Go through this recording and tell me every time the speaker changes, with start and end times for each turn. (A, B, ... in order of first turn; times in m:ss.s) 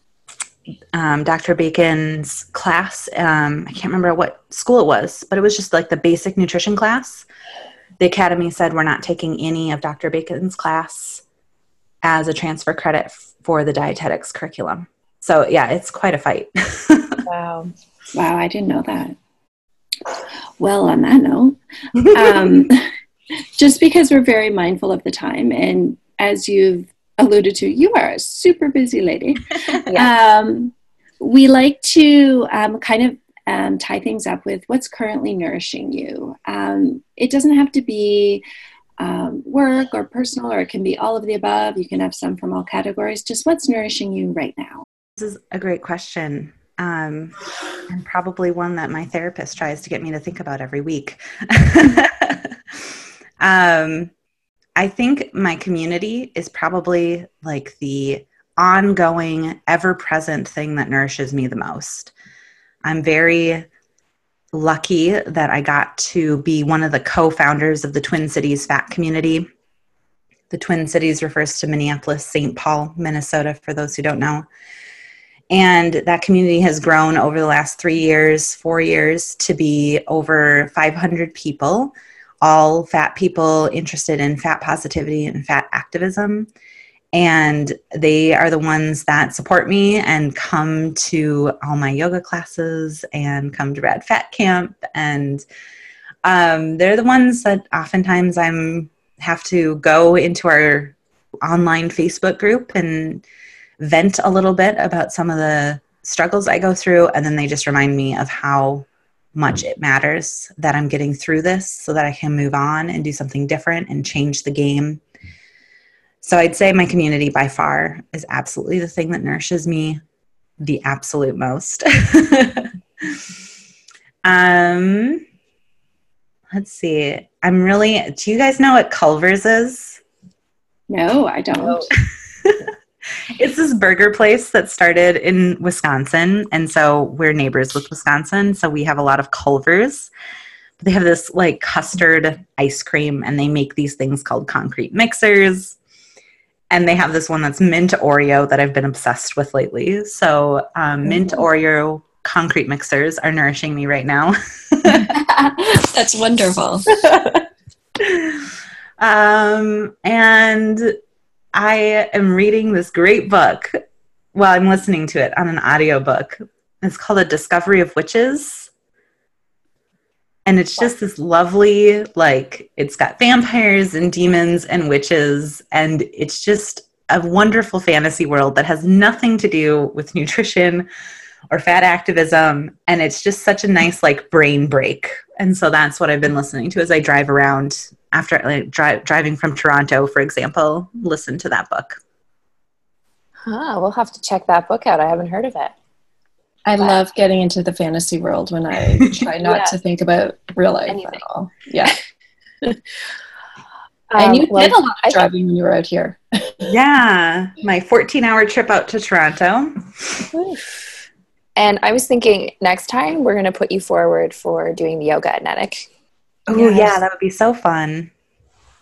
0:00.9-0:07.2 A
0:08.0-0:11.2 A
0:12.0-0:17.2 A
0:17.2-0:17.7 B
0:18.1-0:19.1 C
0:20.6-0:22.8 C
0:22.0-0:22.6 A
0:23.6-0:38.4 C
0:39.0-0:44.8 C
0:45.2-0:47.4 A
0:47.9-0:54.1 A
0:54.8-1:02.1 A
1:02.8-1:03.7 A
1:04.5-1:09.4 A
1:10.5-1:14.4 A
1:15.5-1:26.5 A
1:27.1-1:35.4 A
1:36.2-1:43.2 A
1:43.8-1:55.0 A
1:56.2-2:00.0 A
2:00.6-2:03.2 A
2:04.2-2:05.2 A
2:06.5-2:10.0 A
2:10.9-2:11.9 C
2:12.4-2:12.7 A
2:13.4-2:20.1 A
2:20.8-2:25.8 A
2:26.7-2:35.1 A
2:34.9-2:36.9 C
2:36.9-2:37.4 A
2:38.0-2:40.9 A
2:41.5-2:43.8 A
2:44.3-2:48.7 A
2:50.4-3:00.9 A
3:01.5-3:12.0 A
3:13.4-3:15.7 B
3:16.6-3:22.0 C
3:19.4-3:19.7 B
3:20.9-3:21.2 B
3:24.1-3:25.2 B
3:24.2-3:26.7 C
3:26.6-3:30.2 A
3:30.3-3:30.8 B
3:31.6-3:35.9 B
3:36.5-3:38.1 A
3:36.5-3:37.0 B